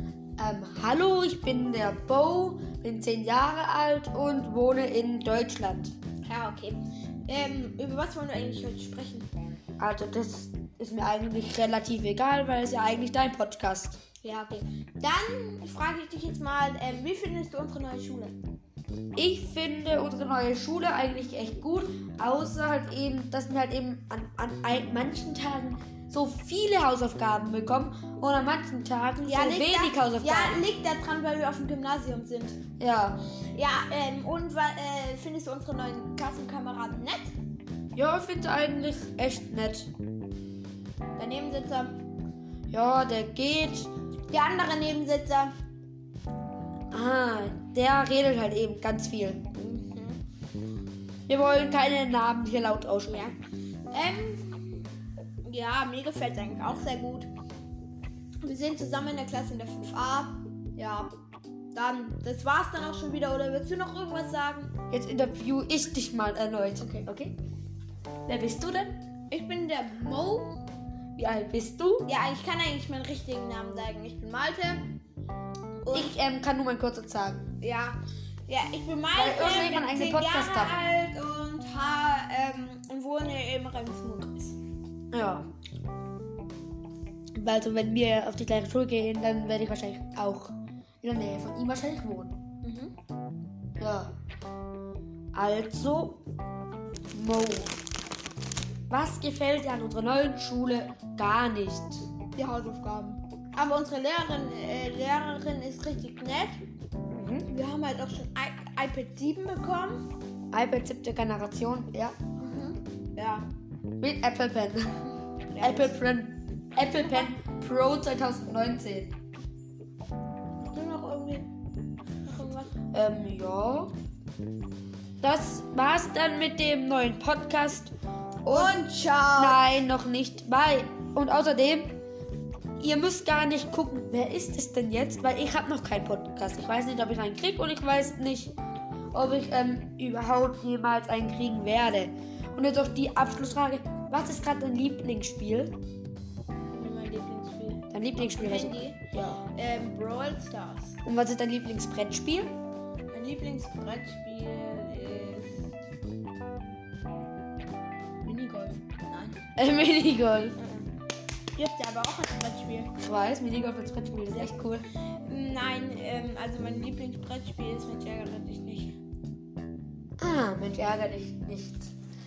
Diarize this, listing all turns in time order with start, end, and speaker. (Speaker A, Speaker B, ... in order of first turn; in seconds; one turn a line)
Speaker A: 0.4-5.9
Speaker B: 6.3-9.3
Speaker A: 9.8-14.0
Speaker B: 14.2-18.4
Speaker A: 19.1-30.6
Speaker B: 29.2-32.6
Speaker A: 32.8-33.2
Speaker B: 33.5-37.3
Speaker A: 38.0-39.9
Speaker B: 41.2-41.9
Speaker A: 42.7-43.9
Speaker B: 44.3-45.5
Speaker A: 46.9-49.5
Speaker B: 49.5-50.2
Speaker A: 51.3-53.3
Speaker B: 53.1-53.4
Speaker B: 53.9-54.9
Speaker B: 55.5-57.3
Speaker B: 58.4-61.1
Speaker B: 61.7-64.7
Speaker A: 64.9-67.4
Speaker A: 68.3-69.0
Speaker B: 69.3-70.6
Speaker A: 71.2-72.1
Speaker B: 72.0-74.9
Speaker B: 75.8-76.2
Speaker A: 75.9-77.5
Speaker B: 77.6-84.6
Speaker A: 79.1-80.8
Speaker A: 85.1-85.5
Speaker A: 87.4-92.4
Speaker B: 92.6-92.9
Speaker A: 93.8-94.1
Speaker A: 95.3-96.2
Speaker A: 97.1-97.7
Speaker A: 98.9-102.1
Speaker B: 102.3-106.6
Speaker A: 107.1-107.5
Speaker B: 107.5-110.0
Speaker A: 110.5-112.2
Speaker B: 112.4-113.5
Speaker A: 114.0-115.0
Speaker B: 115.5-116.0
Speaker A: 115.6-119.2
Speaker B: 120.6-121.5
Speaker B: 122.2-122.7
Speaker A: 122.9-123.9
Speaker A: 125.2-128.8
Speaker B: 128.5-129.6
Speaker A: 129.4-131.9
Speaker A: 132.8-138.5
Speaker A: 139.1-145.8
Speaker B: 146.7-151.0
Speaker A: 147.9-149.4
Speaker A: 151.1-152.5
Speaker B: 153.1-155.7
Speaker B: 158.2-159.4
Speaker A: 159.6-160.6
Speaker B: 160.6-160.9
Speaker B: 161.6-162.9
Speaker A: 163.0-164.9
Speaker B: 165.2-168.9
Speaker A: 170.2-171.9